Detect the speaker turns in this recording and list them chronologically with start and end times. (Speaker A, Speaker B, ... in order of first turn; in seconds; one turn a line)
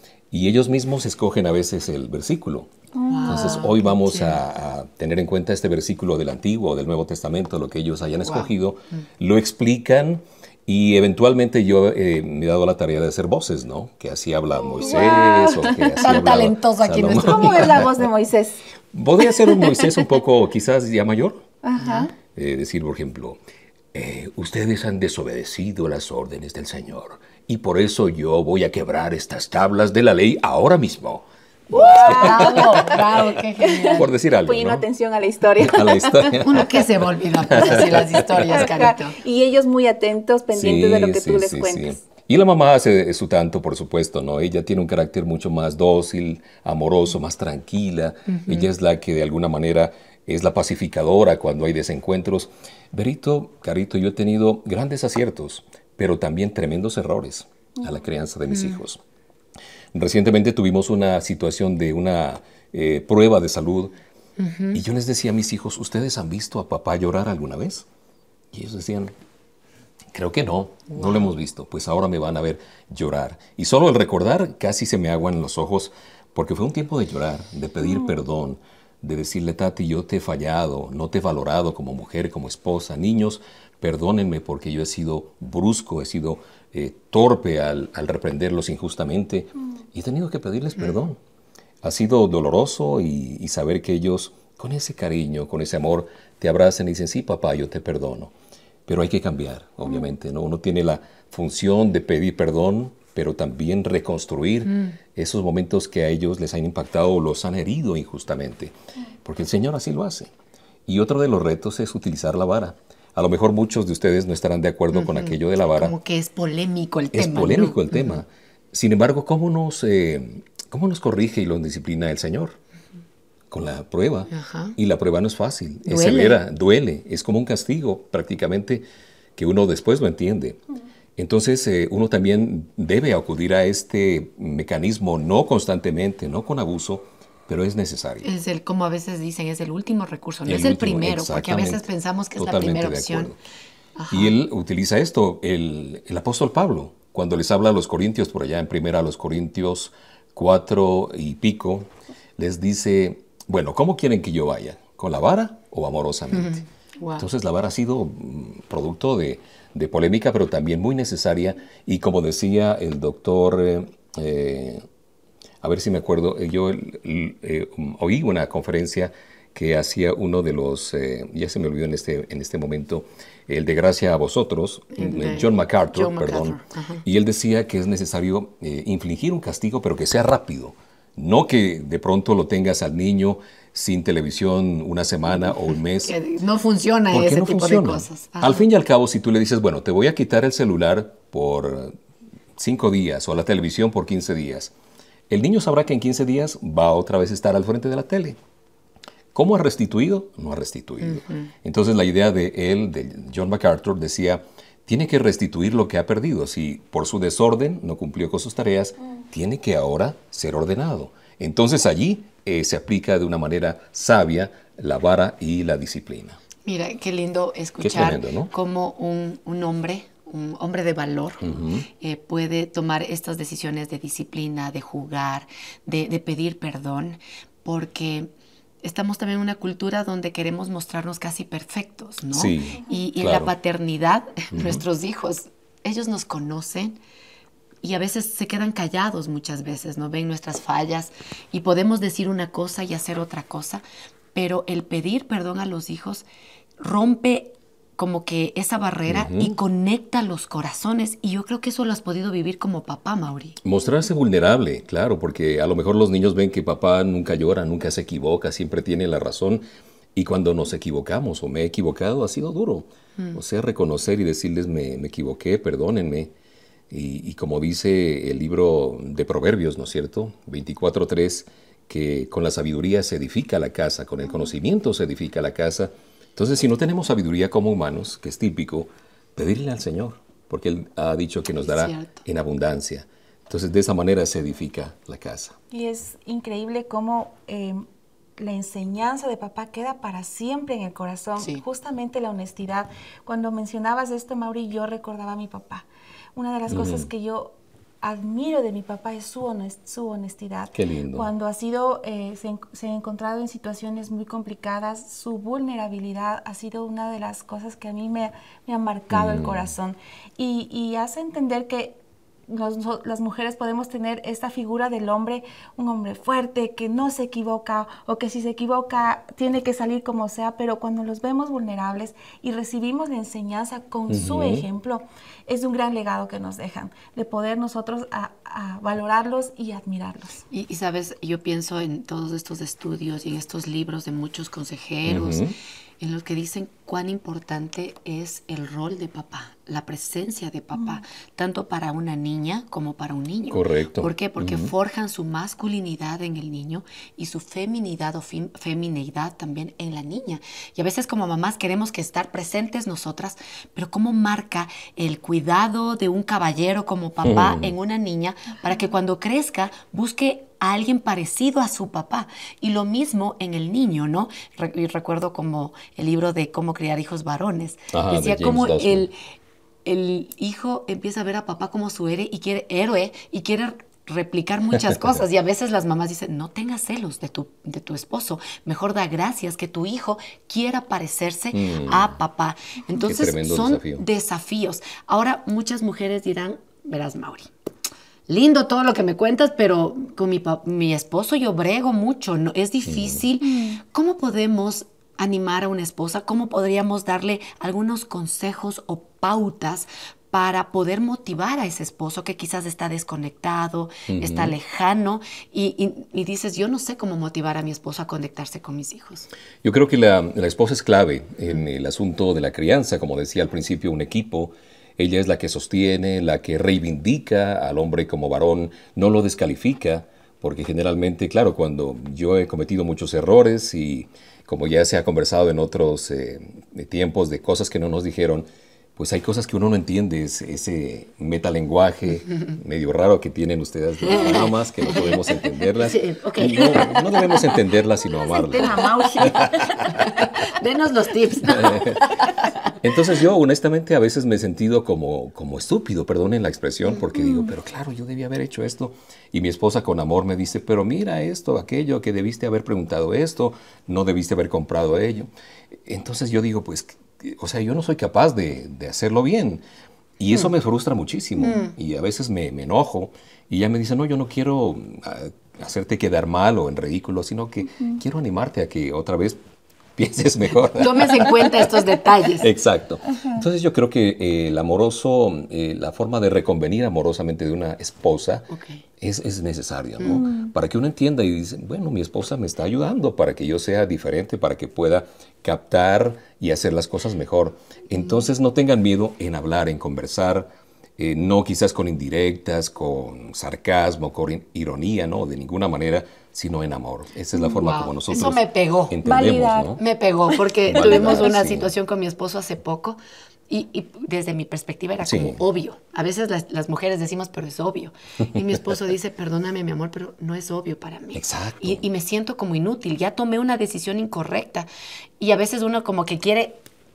Speaker A: 0.3-2.7
Speaker B: 3.0-3.8
Speaker C: 3.1-4.4
Speaker A: 3.3-17.9
Speaker C: 8.2-8.5
Speaker B: 14.8-16.0
Speaker C: 16.0-17.9
Speaker B: 17.2-18.6
Speaker A: 18.9-21.5
Speaker B: 19.2-19.9
Speaker B: 21.6-22.1
Speaker C: 21.8-22.1
Speaker A: 22.3-23.4
Speaker A: 23.9-33.4
Speaker B: 31.7-33.0
Speaker C: 32.0-34.1
Speaker B: 33.6-36.5
Speaker A: 33.9-34.9
Speaker A: 35.6-36.9
Speaker C: 36.4-39.2
Speaker A: 37.4-38.7
Speaker B: 38.5-42.0
Speaker A: 40.5-59.0
Speaker C: 48.3-48.7
Speaker C: 58.5-58.8
Speaker A: 59.9-64.0
Speaker C: 64.4-64.8
Speaker A: 64.7-67.9
Speaker A: 68.5-69.1
Speaker A: 70.1-91.2
Speaker C: 70.9-71.3
Speaker A: 91.8-98.3
Speaker A: 98.9-110.3
Speaker C: 104.7-105.0
Speaker A: 110.9-116.0
Speaker C: 114.9-118.2
Speaker A: 117.1-122.6
Speaker A: 123.5-130.6
Speaker C: 124.3-124.8
Speaker C: 125.9-126.4
Speaker A: 131.2-138.3
Speaker C: 138.2-143.3
Speaker A: 140.5-143.4
Speaker C: 144.0-144.3
Speaker A: 144.1-156.6
Speaker C: 156.3-157.3
Speaker A: 157.2-164.8
Speaker A: 165.6-186.2
Speaker C: 175.0-177.0
Speaker C: 186.0-188.7
Speaker A: 187.1-191.9
Speaker A: 192.6-194.7
Speaker A: 195.3-198.4
Speaker A: 199.3-216.4
Speaker C: 201.0-201.5
Speaker C: 216.7-228.3
Speaker A: 217.8-218.5
Speaker A: 221.4-221.9
Speaker C: 228.8-237.0
Speaker A: 232.3-233.5
Speaker A: 234.5-234.8
Speaker C: 237.8-243.8
Speaker C: 244.3-246.3
Speaker C: 246.8-253.6
Speaker A: 249.1-249.6
Speaker A: 253.6-266.3
Speaker A: 266.9-285.6
Speaker C: 281.6-282.2
Speaker B: 285.7-287.9
Speaker B: 288.4-330.4
Speaker A: 296.7-297.1
Speaker A: 300.7-301.3
Speaker A: 309.1-309.7
Speaker A: 324.1-324.7
Speaker C: 330.5-335.4
Speaker A: 335.1-335.6
Speaker C: 336.0-369.1
Speaker A: 343.5-344.7
Speaker A: 357.2-357.7
Speaker A: 367.9-369.1
Speaker C: 369.9-387.5
Speaker A: 381.5-382.2
Speaker A: 382.9-384.1
Speaker C: 388.3-409.3
Speaker A: 392.9-393.2
Speaker A: 404.1-404.6
Speaker A: 409.6-439.3
Speaker C: 434.0-437.6
Speaker B: 438.3-439.6
Speaker C: 439.9-442.7
Speaker A: 441.5-442.0
Speaker A: 442.8-455.3
Speaker A: 455.9-459.6
Speaker A: 460.2-469.4
Speaker C: 461.4-461.7
Speaker A: 470.0-471.5
Speaker C: 470.8-472.5
Speaker A: 472.4-478.5
Speaker C: 478.5-478.8
Speaker A: 479.0-499.8
Speaker C: 480.0-480.3
Speaker B: 480.1-480.5
Speaker C: 497.5-499.0
Speaker B: 499.0-499.8
Speaker C: 499.8-514.7
Speaker A: 500.7-501.7
Speaker B: 500.8-501.2
Speaker A: 505.0-505.4
Speaker A: 511.1-511.8
Speaker C: 515.2-516.6